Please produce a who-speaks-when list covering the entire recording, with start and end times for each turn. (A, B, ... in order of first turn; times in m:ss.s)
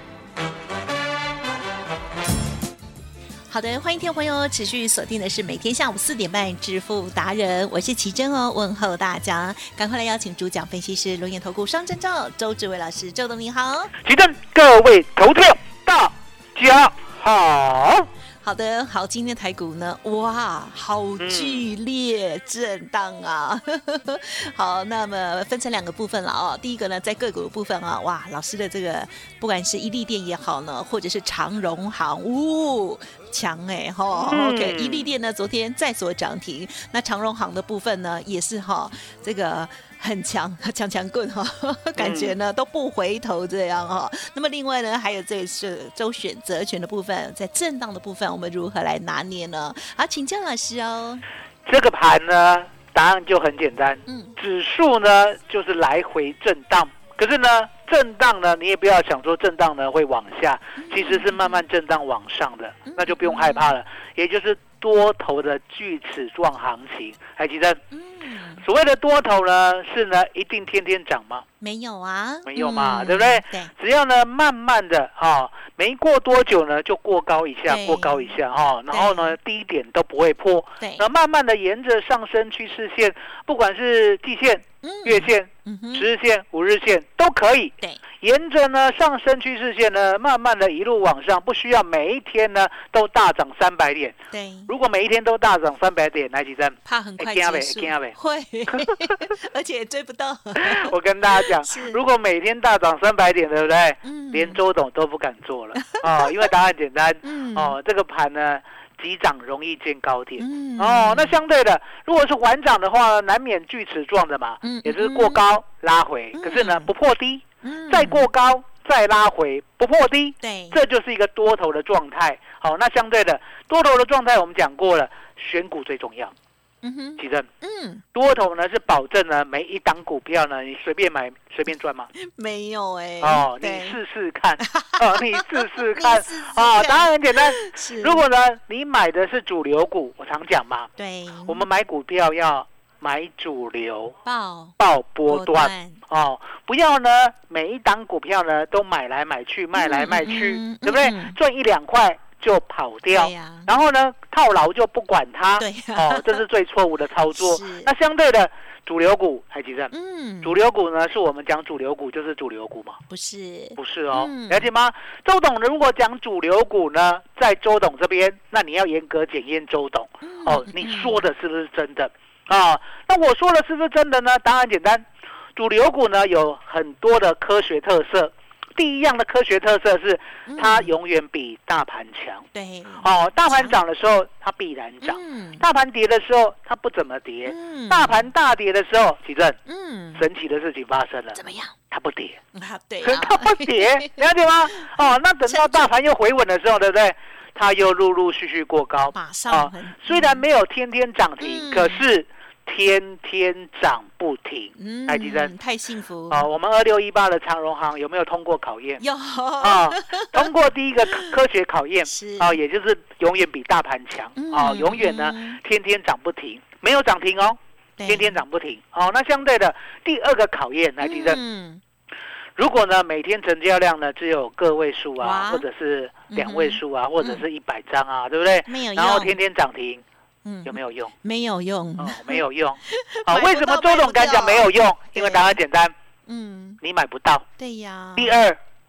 0:03.5-0:13.9 A
0:14.0-0:18.1 B
0:18.4-0:51.2 A
0:21.2-0:21.6 B
0:34.3-0:35.1 B
0:42.0-0:42.3 B
0:51.6-1:07.8 B
0:54.1-0:54.4 A
1:00.8-1:01.6 A
1:02.9-1:03.7 A
1:07.9-1:08.6 A
1:08.6-1:11.4 B
1:11.6-1:13.7 A
1:12.5-1:34.2 B
1:17.7-1:18.4 A
1:18.9-1:19.4 A
1:20.8-1:21.0 A
1:24.8-1:26.1 A
1:34.3-1:34.7 A
1:34.7-1:38.2 B
1:36.8-1:42.0 A
1:38.7-1:39.1 B
1:40.6-2:06.3 B
1:44.0-1:44.6 A
1:45.8-1:46.5 A
1:47.2-1:47.7 A
1:50.4-1:51.4 A
1:54.6-1:55.4 A
1:56.4-1:56.9 A
1:57.6-1:58.2 A
2:00.4-2:00.8 A
2:06.8-2:08.0 A
2:07.2-2:07.5 B
2:08.1-2:12.1 B
2:12.2-2:14.0 A
2:13.2-2:20.9 B
2:14.6-2:18.2 A
2:21.0-2:21.6 A
2:21.5-2:24.2 B
2:24.2-2:26.0 A
2:24.8-2:43.0 B
2:29.7-2:31.4 A
2:33.1-2:33.7 A
2:35.6-2:36.4 A
2:37.3-2:37.9 A
2:39.9-2:40.5 A
2:43.1-2:44.7 A
2:43.8-2:55.0 B
2:50.2-2:51.2 A
2:55.6-3:02.4 B
3:00.5-3:00.9 A
3:02.5-3:03.8 A
3:03.0-3:09.6 B
3:05.0-3:05.6 A
3:07.4-3:08.3 A
3:09.6-3:10.2 A
3:10.1-3:11.4 B
3:11.3-3:11.7 A
3:11.9-3:12.4 B
3:12.5-3:14.1 A
3:13.0-3:25.5 B
3:14.8-3:15.9 A
3:19.1-3:20.4 A
3:21.4-3:22.0 A
3:24.8-3:26.4 A
3:26.3-3:29.0 B
3:29.0-3:30.5 A
3:29.6-3:41.4 B
3:32.1-3:32.6 A
3:34.4-3:35.6 A
3:38.0-3:38.4 A
3:41.0-3:41.8 A
3:42.6-3:50.0 B
3:45.2-3:45.6 A
3:46.3-3:47.4 A
3:48.7-3:49.4 A
3:50.4-3:55.6 A
3:50.6-3:51.1 B
3:52.0-3:55.9 B
3:56.3-3:56.8 A
3:56.8-3:57.4 B
3:57.6-3:58.4 A
3:58.2-3:58.6 B